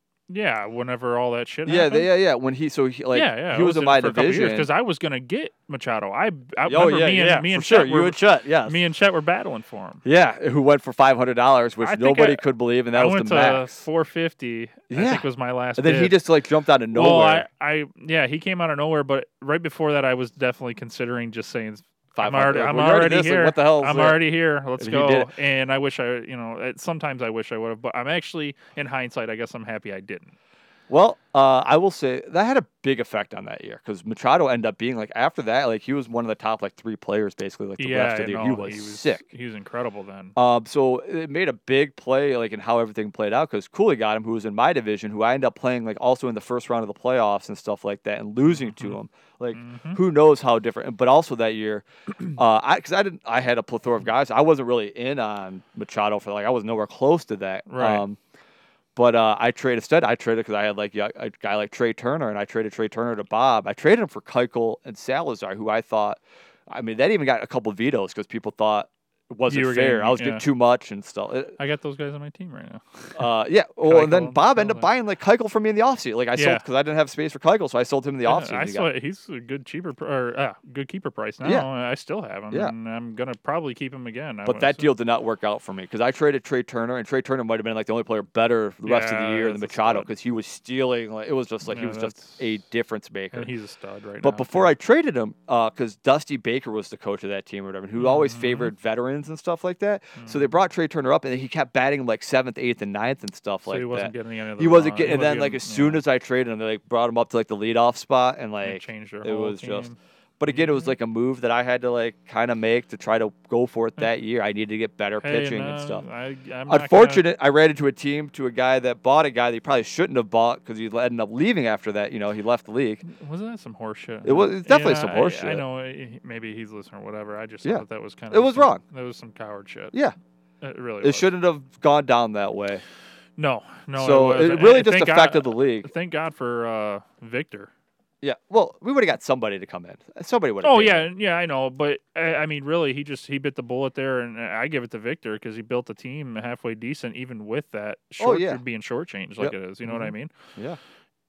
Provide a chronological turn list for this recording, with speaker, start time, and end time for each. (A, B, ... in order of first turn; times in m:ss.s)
0:00.3-0:02.1 A
0:01.6-0:04.7 B
0:03.1-0:10.0 A
0:06.7-0:08.8 B
0:10.0-0:13.8 B
0:11.8-0:16.2 A
0:14.9-0:15.2 B
0:15.8-0:17.5 B
0:16.9-0:30.4 A
0:22.2-0:24.2 B
0:24.8-0:25.3 B
0:30.9-0:39.2 B
0:37.8-0:40.3 A
0:40.4-0:58.2 B
0:48.4-0:49.0 A
0:49.5-0:50.0 A
0:57.7-0:58.0 A
0:59.0-1:11.5 B
1:09.5-1:10.4 A
1:11.6-1:13.3 A
1:13.2-1:18.9 B
1:13.8-1:14.9 A
1:16.4-1:16.6 A
1:18.2-1:24.9 A
1:24.4-1:33.5 B
1:28.8-1:30.1 A
1:31.6-1:32.6 A
1:33.3-1:34.7 A
1:34.2-1:49.9 B
1:38.0-1:38.7 A
1:40.2-1:40.5 A
1:43.7-1:46.0 A
1:48.6-1:50.0 A
1:50.4-1:56.0 B
1:50.5-1:50.9 A
1:55.2-1:57.2 A
1:56.7-2:03.0 B
2:03.0-2:09.9 A
2:04.2-2:05.6 B
2:07.6-2:08.8 B
2:10.6-2:11.3 A
2:11.0-2:12.8 B
2:13.4-2:17.7 A
2:14.0-2:15.9 B
2:18.2-2:21.1 B
2:20.6-2:30.3 A
2:28.2-2:28.6 B
2:29.4-2:30.8 B